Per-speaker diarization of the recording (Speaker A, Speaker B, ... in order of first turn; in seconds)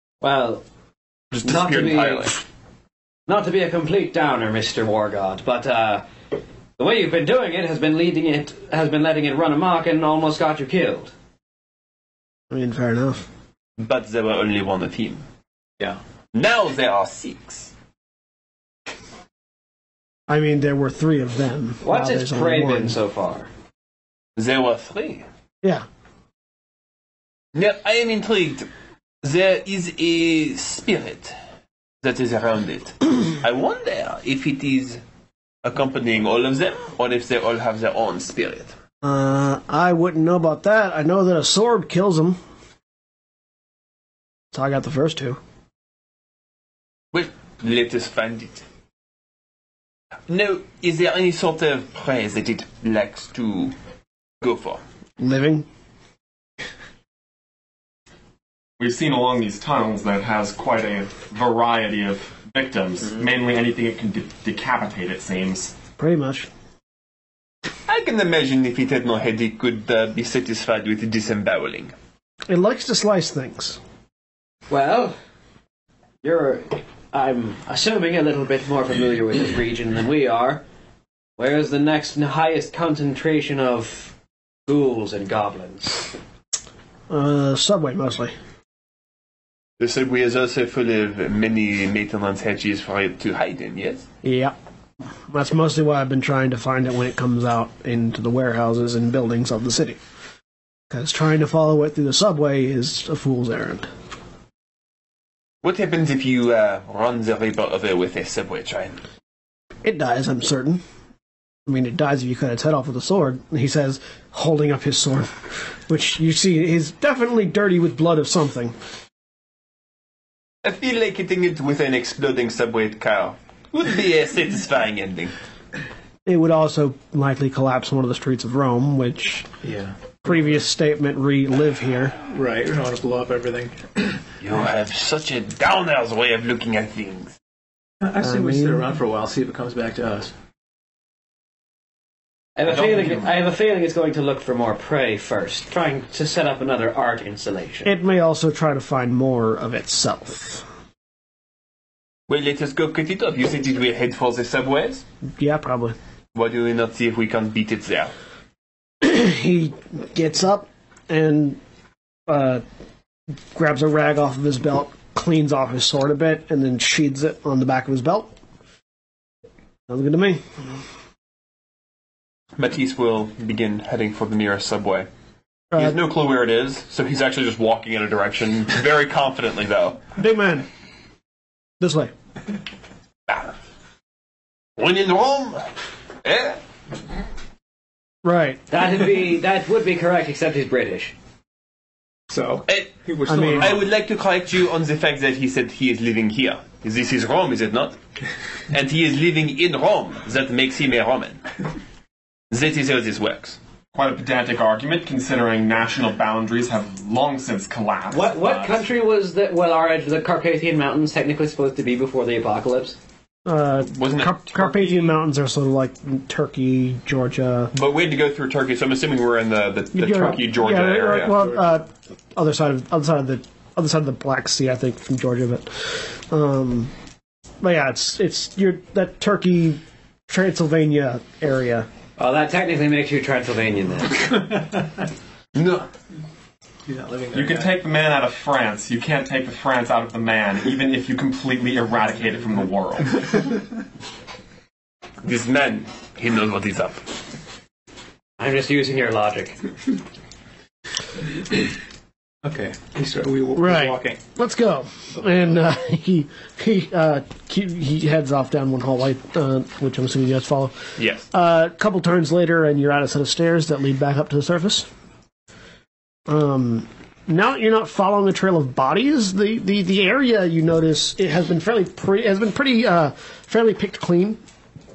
Speaker A: 0.2-0.6, 1.4-2.3, 3.3-6.0, 6.8-11.1, 21.8-23.5, 74.7-75.2, 76.2-80.6, 81.4-84.1, 84.7-86.0, 142.6-147.9, 188.7-191.1, 208.1-213.0, 232.2-234.3, 248.4-249.6
Speaker B: 1.3-2.4, 13.8-15.2, 16.3-17.7, 24.4-25.2, 27.6-28.7, 29.2-31.4, 32.0-35.0, 35.6-38.7, 47.1-48.6, 50.3-53.7, 54.4-54.8, 67.9-71.9, 89.8-94.0, 105.6-109.0, 120.6-125.3, 134.4-137.3, 152.3-155.0, 156.3-158.1, 172.6-175.1, 175.8-180.0, 183.3-183.5, 184.8-185.7, 186.2-186.6, 192.7-192.9, 193.4-198.0, 198.7-201.4, 202.5-203.6, 213.9-215.1, 217.7-221.4, 235.6-235.9, 245.2-247.0, 261.0-261.3
Speaker C: 12.5-13.3, 20.3-23.0, 39.0-42.4, 44.5-45.4, 55.2-55.7, 66.0-66.5, 72.5-73.8, 87.1-88.3, 94.2-94.5, 95.3-100.0, 100.9-103.9, 109.8-110.8, 111.7-118.8, 126.3-129.5, 130.2-132.2, 138.2-138.8, 147.8-150.7, 155.4-156.0, 159.0-161.6, 162.3-162.6, 163.5-168.3, 169.9-170.4, 180.2-180.7, 181.8-182.1, 188.2-188.6, 193.3-193.7, 213.5-217.7, 219.9-226.9, 227.6-231.9, 253.6-264.9, 266.3-274.4
Speaker D: 58.8-65.8, 142.7-143.2, 203.9-208.7, 237.3-243.3
Speaker E: 129.6-130.1, 132.2-134.2, 138.0-140.3, 192.3-193.9, 234.5-234.8, 236.9-237.8, 252.4-254.2